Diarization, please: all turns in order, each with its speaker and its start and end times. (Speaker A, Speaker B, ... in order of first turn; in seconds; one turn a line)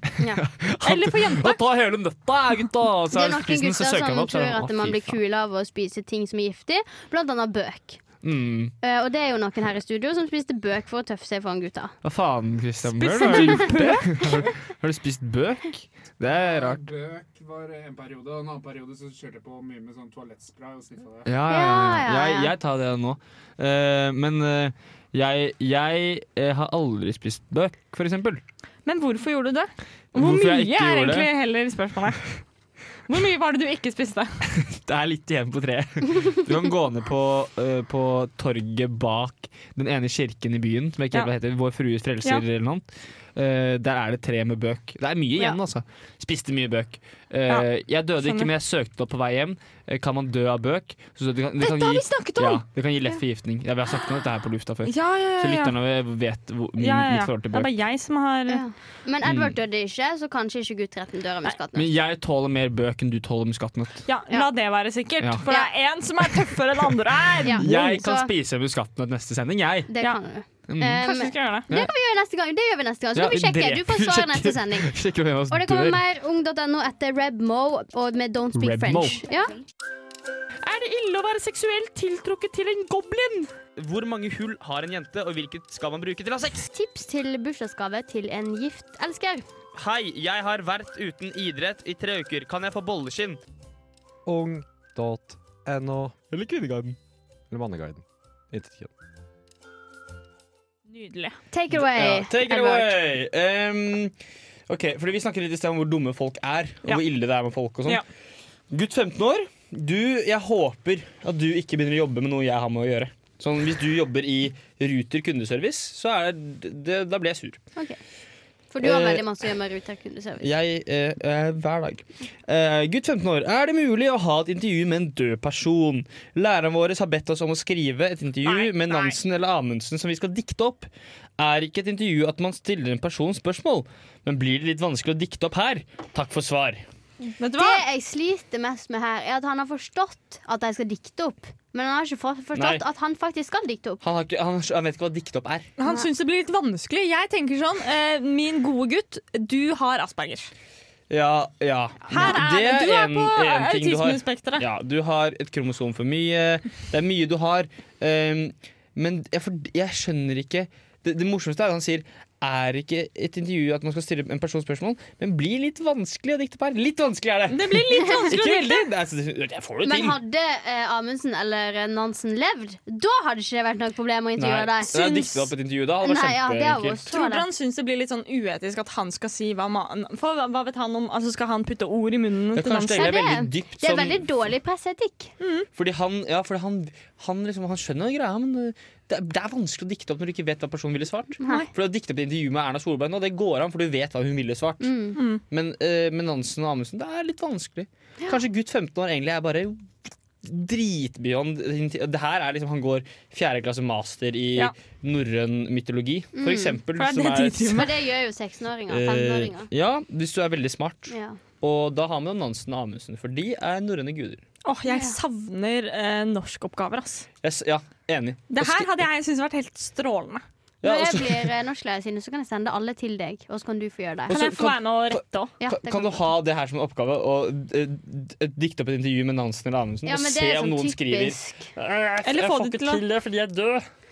Speaker A: 0.2-0.4
Speaker B: 0.2-5.2
Speaker C: 0.8-1.6
Speaker A: 3.1-8.0
Speaker B: 8.2-8.7
Speaker A: 8.8-11.9
Speaker B: 12.0-16.8
Speaker C: 12.9-14.4
Speaker D: 16.4-21.3
Speaker B: 21.2-28.4
Speaker A: 21.5-22.5
Speaker C: 28.9-32.4
Speaker B: 30.1-31.3
Speaker C: 33.1-34.4
Speaker B: 34.5-57.7
Speaker C: 48.2-48.5
Speaker C: 51.6-52.6
Speaker C: 54.9-55.8
Speaker C: 56.8-58.6
Speaker A: 58.5-61.9
Speaker B: 59.2-59.5
Speaker B: 61.7-64.0
Speaker C: 64.1-67.7
Speaker B: 65.2-65.5
Speaker A: 67.4-68.3
Speaker B: 67.5-69.9
Speaker A: 69.9-74.9
Speaker B: 70.7-71.0
Speaker C: 71.0-71.7
Speaker B: 73.1-76.0
Speaker A: 75.5-79.6
Speaker B: 78.5-79.2
Speaker B: 80.6-86.7
Speaker A: 86.7-89.5
Speaker B: 89.8-93.4
Speaker E: 94.3-96.2
Speaker B: 96.3-97.0
Speaker E: 97.5-98.9
Speaker C: 100.9-101.4
Speaker A: 101.5-102.9
Speaker B: 101.7-104.1
Speaker B: 104.7-108.0
Speaker B: 108.7-117.6
Speaker A: 118.7-120.5
Speaker B: 118.8-119.3
Speaker B: 120.4-136.8
Speaker C: 128.4-129.2
Speaker C: 137.4-137.8
Speaker A: 137.6-144.0
Speaker B: 142.6-142.8
Speaker B: 144.0-145.7
Speaker C: 145.8-150.5
Speaker B: 151.1-170.2
Speaker C: 152.1-154.7
Speaker A: 152.1-152.4
Speaker C: 167.5-168.9
Speaker A: 169.8-175.5
Speaker B: 174.4-177.0
Speaker A: 176.0-177.5
Speaker C: 177.1-183.2
Speaker B: 182.5-184.2
Speaker A: 183.0-185.3
Speaker C: 185.4-185.7
Speaker B: 185.8-194.9
Speaker A: 191.4-191.7
Speaker A: 194.8-195.2
Speaker C: 195.2-195.4
Speaker B: 195.5-199.9
Speaker B: 200.4-207.9
Speaker A: 206.3-206.8
Speaker C: 206.9-207.9
Speaker A: 207.7-209.7
Speaker B: 208.9-214.4
Speaker A: 211.1-211.4
Speaker C: 214.7-217.3
Speaker A: 214.9-215.2
Speaker B: 217.4-219.0
Speaker C: 218.5-220.4
Speaker B: 220.8-221.5
Speaker A: 220.8-224.3
Speaker C: 224.3-225.5
Speaker B: 224.3-233.9
Speaker A: 225.6-226.2
Speaker A: 230.1-231.7
Speaker C: 232.2-233.0